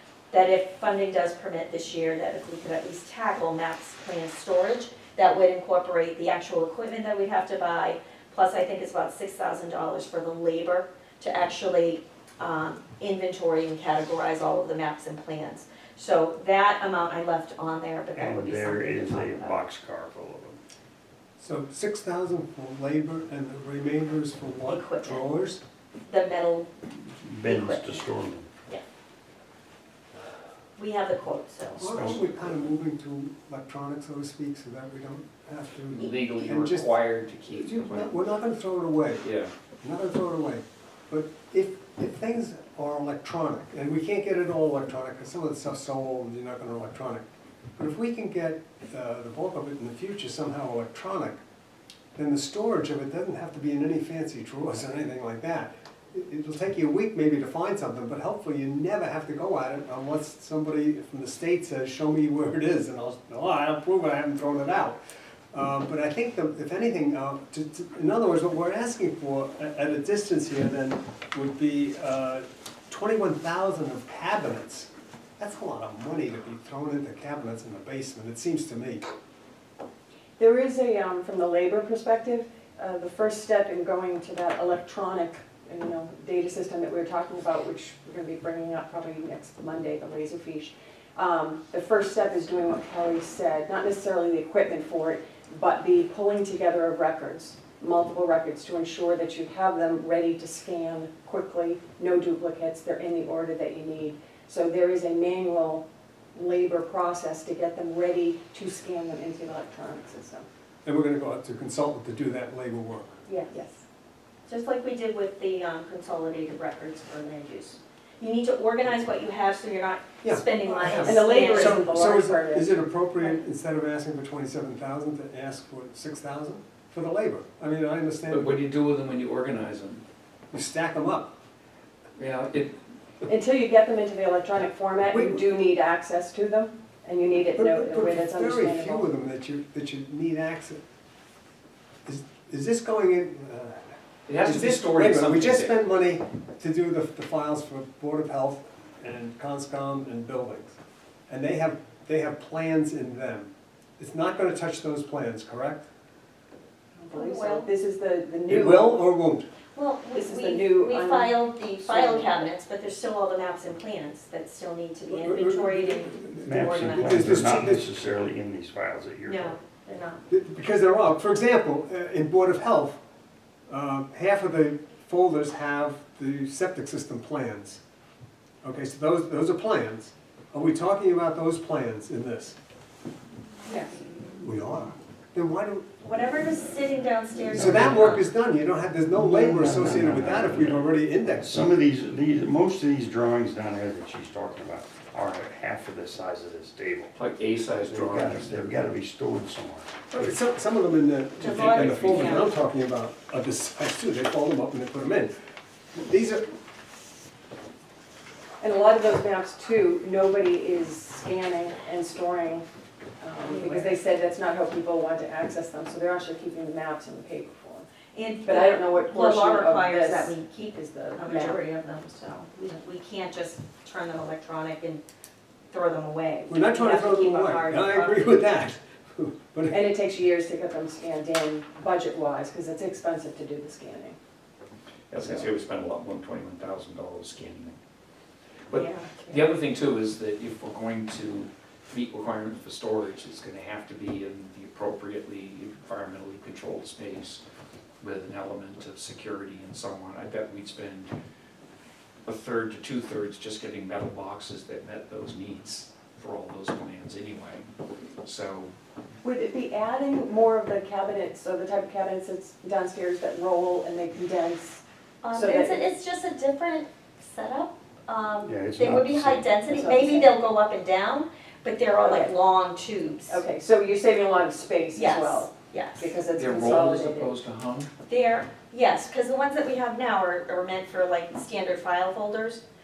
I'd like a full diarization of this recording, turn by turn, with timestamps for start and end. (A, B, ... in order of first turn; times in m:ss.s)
0:00.3-0:19.6 A
0:18.1-0:20.6 B
0:21.4-0:25.6 C
0:24.7-0:25.3 A
0:26.1-0:26.7 A
0:27.2-0:28.5 B
0:27.4-0:28.1 A
0:30.8-0:32.2 A
0:31.8-0:39.3 C
0:35.9-0:38.2 D
0:39.2-0:39.5 D
0:39.8-0:47.2 C
0:47.8-0:51.4 C
0:52.2-1:05.0 C
1:05.5-1:19.0 C
1:20.4-1:50.4 E
1:50.8-1:53.1 C
1:53.3-1:53.8 E
1:54.5-2:01.9 A
2:00.2-2:08.6 C
2:00.8-2:03.1 E
2:08.3-2:10.0 D
2:10.5-2:11.3 C
2:12.2-2:12.8 D
2:13.3-2:19.1 E
2:15.1-2:15.5 C
2:17.6-2:20.8 C
2:22.1-2:30.8 C
2:24.3-2:25.8 D
2:31.3-2:35.9 C
2:37.0-2:39.0 E
2:37.1-2:37.7 A
2:38.5-2:39.5 C
2:39.8-2:47.3 A
2:40.1-2:42.4 E
2:45.2-2:46.4 C
2:46.4-2:49.6 B
2:46.9-2:48.0 C
2:49.3-2:50.2 A
2:50.3-2:53.0 C
2:53.7-2:57.8 C
2:58.6-3:02.6 C
3:04.4-3:05.9 C
3:06.0-3:08.3 A
3:07.5-3:08.2 B
3:07.5-3:11.5 C
3:09.1-3:17.2 B
3:10.1-3:10.9 D
3:17.2-3:18.6 D
3:17.7-3:19.9 B
3:20.1-3:25.4 C
3:21.4-3:22.5 A
3:21.4-3:22.4 D
3:25.9-3:26.5 C
3:28.6-3:32.6 E
3:33.2-3:37.9 E
3:33.4-3:34.0 A
3:38.1-3:45.0 A
3:38.5-3:41.6 E
3:45.7-3:48.4 A
3:46.5-3:49.9 C
3:49.7-3:54.2 E
3:55.1-3:57.8 D
3:58.7-4:07.4 D
3:58.7-3:59.5 A
4:08.0-4:11.1 D
4:12.3-4:17.7 D
4:18.2-4:18.7 D
4:19.2-4:25.9 E
4:25.2-4:33.4 A
4:28.4-4:29.6 B
4:29.7-4:30.3 E
4:32.0-4:32.3 E
4:33.3-4:37.3 E
4:34.9-4:36.1 A
4:36.4-4:37.9 D
4:38.1-4:42.6 A